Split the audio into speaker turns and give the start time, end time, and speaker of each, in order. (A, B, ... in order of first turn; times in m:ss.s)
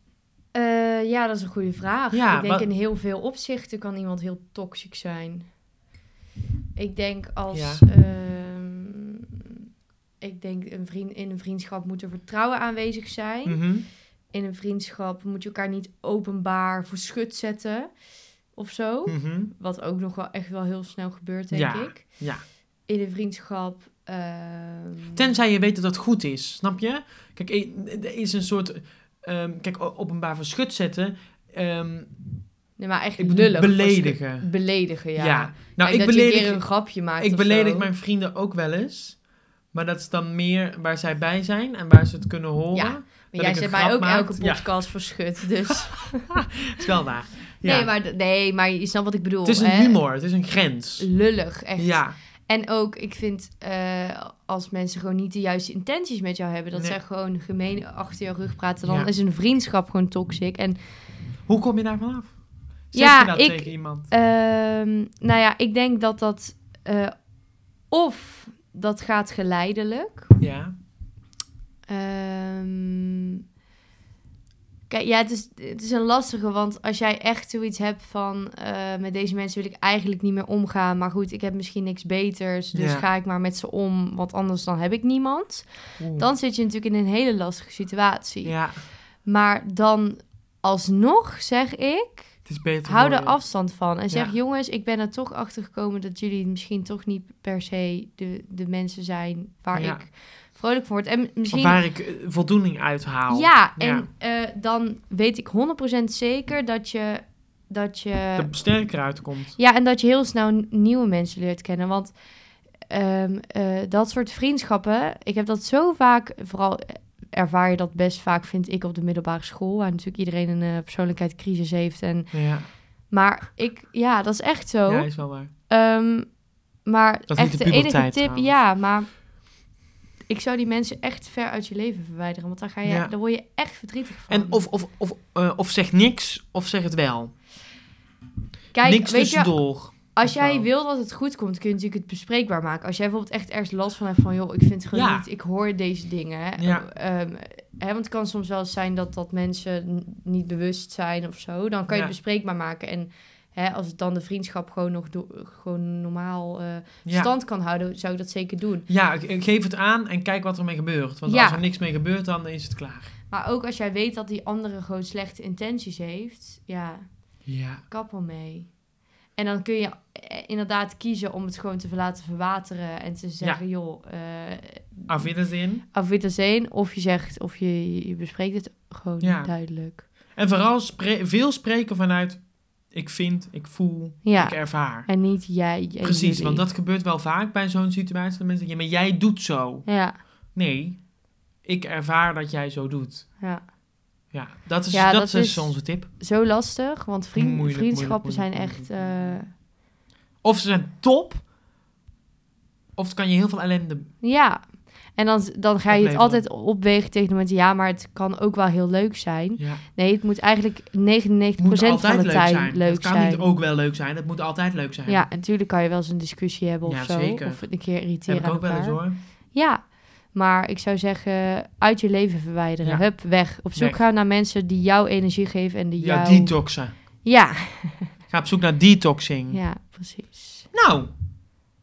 0:00.5-0:05.5 A
0:02.1-0:02.7 B
0:06.8-0:09.2 A
0:07.5-0:07.8 B
0:10.2-0:17.9 A
0:13.4-0:13.9 B
0:18.5-0:22.3 A
0:19.0-0:19.5 B
0:21.5-0:22.4 B
0:22.8-0:25.2 A
0:25.1-0:32.2 B
0:32.8-0:37.9 A
0:33.2-0:34.5 B
0:35.1-0:39.2 B
0:39.7-0:44.9 B
0:42.7-0:46.3 A
0:45.7-0:47.9 B
0:47.6-0:50.0 A
0:49.4-0:51.1 B
0:51.0-1:00.8 A
0:51.8-0:52.2 B
0:58.8-0:59.1 B
1:01.5-1:02.4 B
1:02.9-1:04.1 B
1:02.9-1:07.3 A
1:07.9-1:10.3 A
1:10.4-1:10.7 B
1:11.9-1:13.3 A
1:14.9-1:41.8 A
1:22.7-1:23.0 B
1:26.0-1:26.3 B
1:28.4-1:28.8 B
1:32.4-1:33.4 B
1:34.1-1:34.3 B
1:39.7-1:40.0 B
1:41.4-1:44.1 B
1:43.3-1:48.6 A
1:48.4-1:49.6 B
1:49.6-1:52.1 A
1:52.9-2:09.2 A
2:02.3-2:02.7 B
2:04.9-2:05.5 B
2:07.3-2:08.6 B
2:10.3-2:14.6 A
2:12.8-2:13.1 B
2:14.3-2:17.4 B
2:18.7-2:38.8 A
2:18.8-2:20.7 B
2:24.9-2:25.2 B
2:26.6-2:26.9 B
2:31.9-2:32.2 B
2:37.0-2:37.3 B
2:38.9-2:43.1 B
2:41.2-2:41.6 A
2:43.3-2:47.1 A
2:47.4-2:47.8 B
2:47.9-2:48.7 A
2:49.4-2:55.3 A
2:55.1-2:55.8 B
2:55.9-3:00.0 A
2:59.2-3:05.2 B
3:04.2-3:06.6 A
3:06.0-3:11.1 B
3:09.8-3:10.2 A
3:11.6-3:13.3 B
3:13.4-3:13.6 A
3:14.3-3:16.1 B
3:14.9-3:19.5 A
3:17.4-3:19.4 B
3:20.4-3:21.4 B
3:23.0-3:24.1 B
3:24.2-3:33.5 A
3:25.9-3:26.4 B
3:29.6-3:29.8 B
3:31.6-3:35.3 B
3:35.1-3:48.1 A
3:36.8-3:39.2 B
3:42.8-3:44.0 B
3:46.0-3:46.9 B
3:48.3-3:49.6 B
3:49.5-3:50.7 A
3:50.7-3:51.1 B